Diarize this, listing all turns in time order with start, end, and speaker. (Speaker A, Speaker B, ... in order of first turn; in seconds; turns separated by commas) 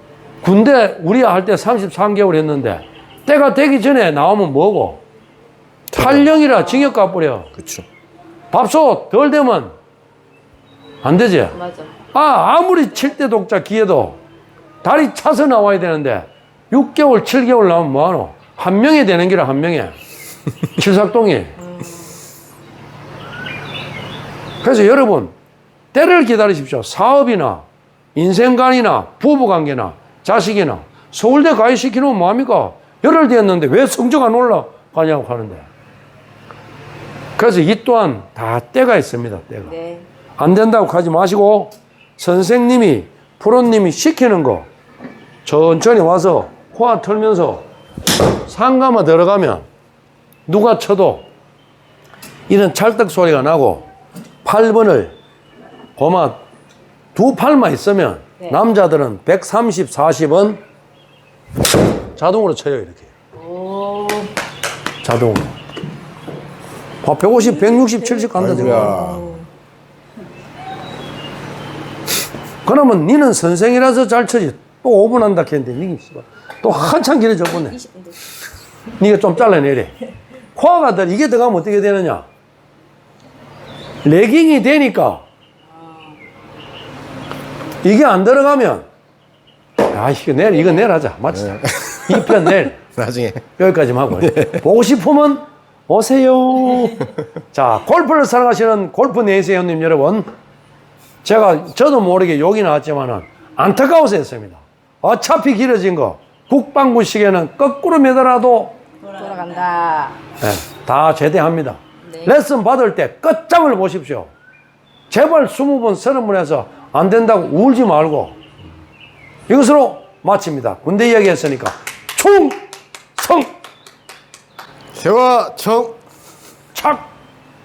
Speaker A: 0.4-5.0, Speaker A: 5.9-7.5, Speaker B: 6.0-6.3, Speaker C: 6.5-6.9, Speaker B: 7.6-7.8, Speaker A: 8.5-9.7, Speaker A: 11.0-11.6, Speaker C: 11.6-11.9, Speaker A: 12.1-14.2, Speaker A: 14.8-20.0, Speaker A: 20.7-21.6, Speaker C: 21.6-22.1, Speaker A: 24.6-25.4, Speaker A: 25.9-35.7, Speaker A: 37.4-39.8, Speaker C: 39.7-40.1, Speaker A: 40.4-44.7, Speaker A: 45.5-47.7, Speaker A: 48.5-49.7, Speaker A: 50.5-51.3, Speaker A: 52.5-53.9, Speaker A: 54.5-55.2, Speaker A: 56.0-56.4, Speaker A: 57.1-60.6, Speaker A: 62.2-63.1, Speaker C: 63.4-64.3, Speaker A: 65.0-65.6, Speaker A: 67.0-69.2, Speaker C: 67.3-69.5, Speaker B: 68.4-69.3, Speaker A: 72.7-77.8, Speaker A: 79.0-79.9, Speaker A: 80.5-82.3, Speaker A: 84.0-85.2, Speaker A: 87.8-88.9, Speaker A: 89.9-92.8, Speaker B: 91.5-92.2, Speaker B: 92.9-93.4, Speaker A: 93.6-100.3, Speaker A: 101.2-108.8, Speaker C: 109.1-110.2, Speaker A: 110.4-114.3, Speaker A: 115.1-118.4, Speaker A: 119.5-123.5, Speaker B: 125.0-126.0, Speaker A: 126.8-127.1